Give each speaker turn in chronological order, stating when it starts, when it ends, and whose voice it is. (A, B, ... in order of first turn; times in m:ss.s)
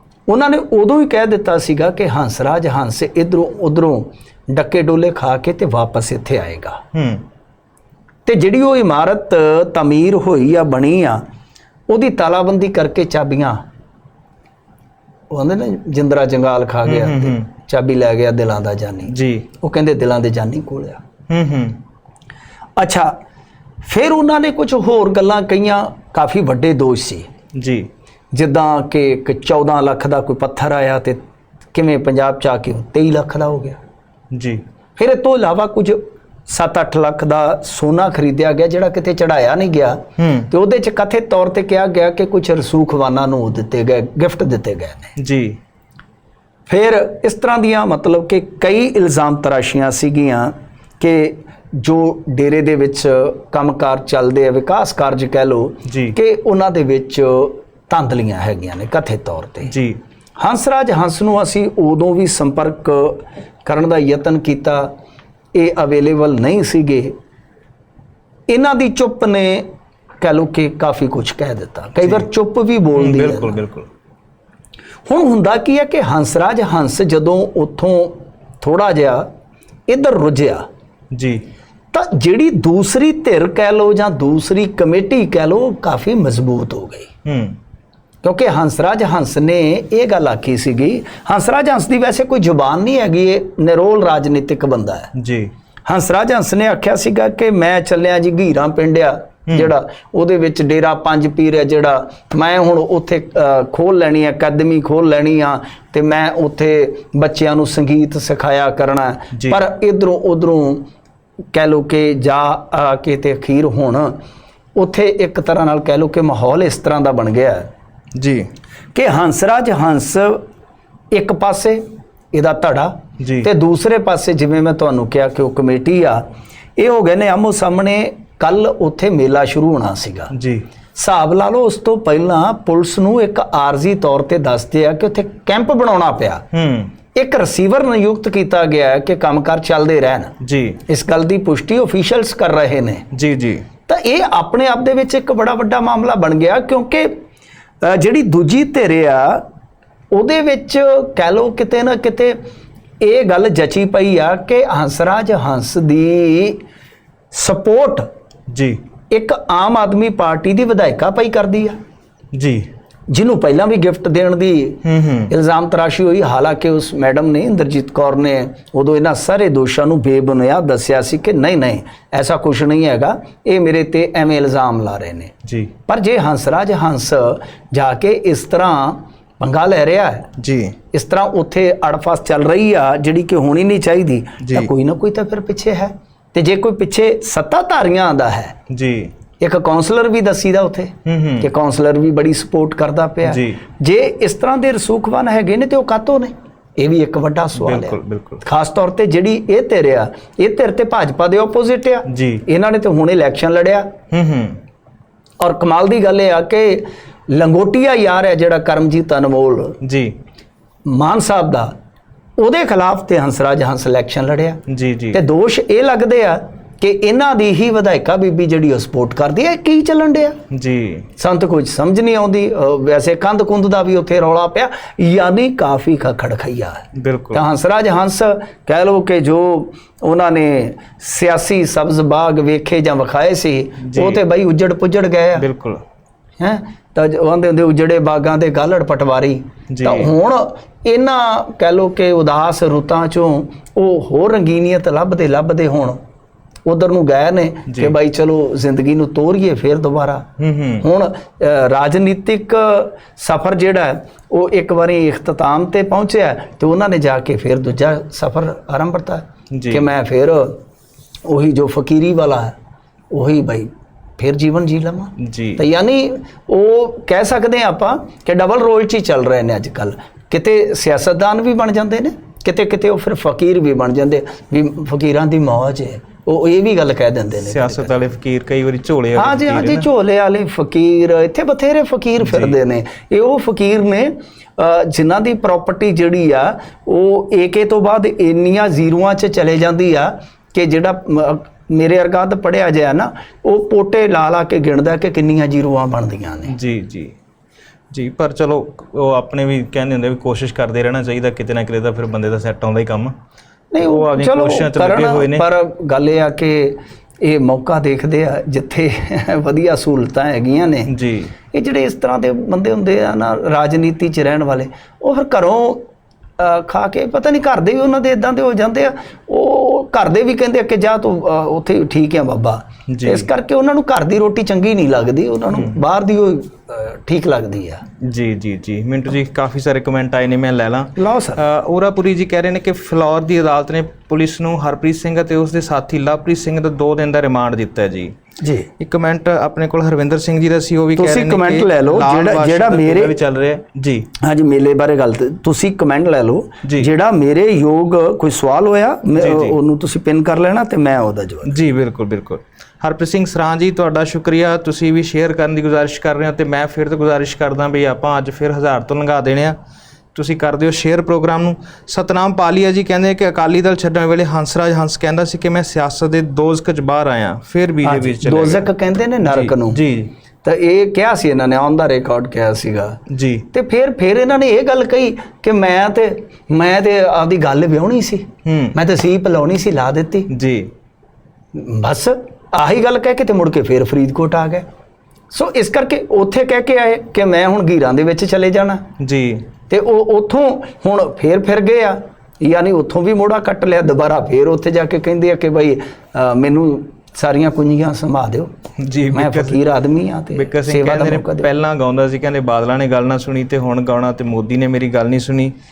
0:00.3-0:06.8 A
0:06.9-0:07.2 B
0:08.2-0:11.2 A
0:11.9-0:13.6 A
0:15.3-0:21.0 A
0:16.8-0:17.4 B
0:19.1-0:19.5 B
0:21.3-0:21.8 B
0:22.8-0:23.2 A
0:23.8-0:27.3 A
0:27.6-0:27.9 B
0:28.3-0:31.2 A
0:31.7-0:33.8 A
0:34.3-0:34.6 B
0:35.0-0:45.1 A
0:40.2-0:40.5 B
0:45.2-0:45.6 B
0:46.7-0:59.8 A
0:55.8-0:56.2 B
0:59.6-1:00.0 B
1:00.4-1:04.9 A
1:05.5-1:07.1 A
1:08.5-1:09.7 A
1:10.2-1:13.6 A
1:12.0-1:12.2 B
1:12.9-1:13.9 B
1:15.1-1:19.3 A
1:19.9-1:20.7 A
1:21.1-1:21.4 B
1:21.9-1:27.1 A
1:27.2-1:27.6 B
1:28.2-1:35.1 A
1:35.2-1:35.5 B
1:35.8-1:50.8 A
1:51.5-1:54.2 A
1:54.8-1:57.7 A
1:58.2-1:58.5 B
1:58.9-2:00.4 A
2:01.1-2:06.2 A
2:03.2-2:03.5 B
2:06.8-2:10.3 A
2:10.3-2:10.6 B
2:11.0-2:16.4 A
2:16.5-2:16.9 B
2:17.2-2:20.3 A
2:20.4-2:20.8 B
2:20.9-2:23.0 A
2:23.1-2:23.7 B
2:23.9-2:27.2 A
2:27.8-2:29.4 A
2:30.1-2:32.4 A
2:33.0-2:36.6 A
2:37.3-2:38.0 A
2:38.5-2:38.8 B
2:39.1-2:41.8 A
2:42.3-2:42.7 B
2:43.1-2:55.3 A
2:44.8-2:45.3 B
2:55.5-2:55.7 B
2:55.9-3:00.3 A
3:00.4-3:00.8 B
3:00.9-3:08.5 A
3:04.4-3:04.7 B
3:08.7-3:09.1 B
3:09.4-3:23.9 A
3:11.0-3:11.5 B
3:13.2-3:13.6 B
3:17.6-3:18.4 B
3:22.1-3:22.4 B
3:24.1-3:24.6 B
3:25.4-3:29.8 A
3:29.8-3:30.2 B
3:30.8-3:31.7 A
3:32.4-3:34.6 A
3:34.7-3:35.2 B
3:35.1-3:40.4 A
3:40.5-3:41.1 B
3:41.2-3:55.5 A
3:47.0-3:47.4 B
3:53.8-3:54.2 B
3:55.4-3:55.8 B
3:56.4-4:06.0 A
3:59.7-4:00.1 B
4:06.7-4:10.3 A
4:07.7-4:07.9 B
4:10.4-4:10.8 B
4:10.8-4:20.6 A
4:19.5-4:19.9 B
4:21.2-4:22.5 A
4:23.1-4:38.0 A
4:25.2-4:25.6 B
4:37.4-4:39.9 B
4:39.1-4:56.5 A
4:42.2-4:42.5 B
4:56.5-4:57.1 B
4:57.9-5:03.1 B
5:03.7-5:10.9 A
5:03.8-5:05.4 B
5:10.9-5:11.3 B
5:11.5-5:15.8 A
5:16.4-5:27.8 A
5:22.9-5:23.3 B
5:28.0-5:38.1 B
5:31.0-5:31.4 A
5:38.4-5:38.7 A
5:38.8-5:44.1 B
5:41.0-5:43.2 A
5:44.2-5:51.6 A
5:49.2-5:49.6 B
5:51.5-5:59.6 B
6:00.1-6:08.7 B
6:07.8-6:09.8 A
6:09.2-6:10.1 B
6:10.4-6:13.0 A
6:13.1-6:13.5 B
6:13.5-6:20.3 A
6:18.4-6:18.8 B
6:20.3-6:20.7 B
6:21.5-6:24.6 A
6:25.3-6:28.8 A
6:29.0-6:29.5 B
6:29.7-6:38.5 A
6:38.8-6:39.6 B
6:39.1-6:41.5 A
6:40.3-6:45.5 B